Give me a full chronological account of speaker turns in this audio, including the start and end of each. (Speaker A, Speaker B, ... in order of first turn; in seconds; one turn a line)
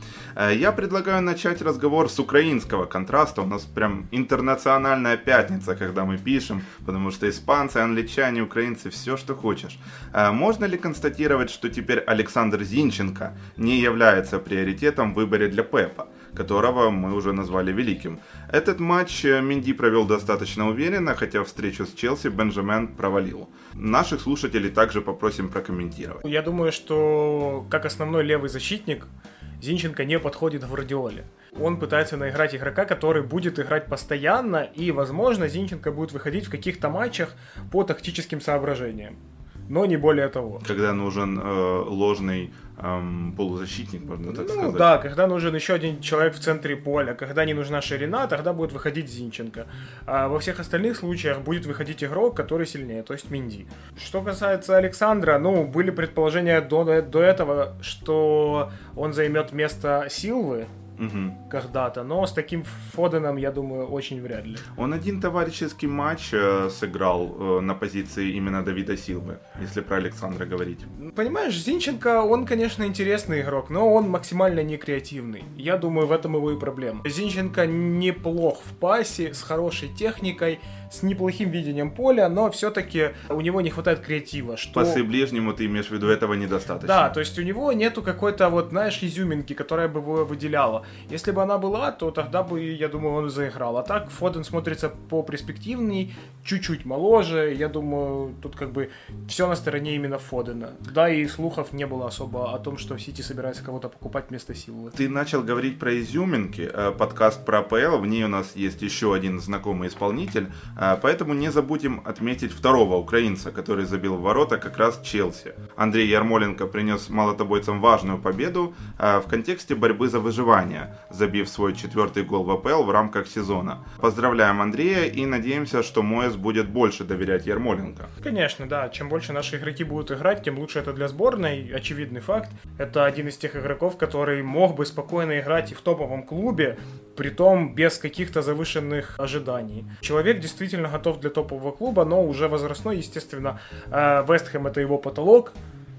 Speaker A: 0.3-26.2
Speaker B: 26.2-29.1
Speaker B: 29.6-39.2
Speaker B: 39.7-40.6
Speaker A: 40.6-45.0
Speaker B: 44.2-60.7
Speaker A: 61.0-61.4
Speaker B: 61.5-64.6
Speaker A: 64.7-70.9
Speaker B: 71.0-85.0
Speaker A: 84.7-87.1
Speaker B: 86.8-104.9
Speaker A: 104.9-128.1
Speaker B: 128.2-145.5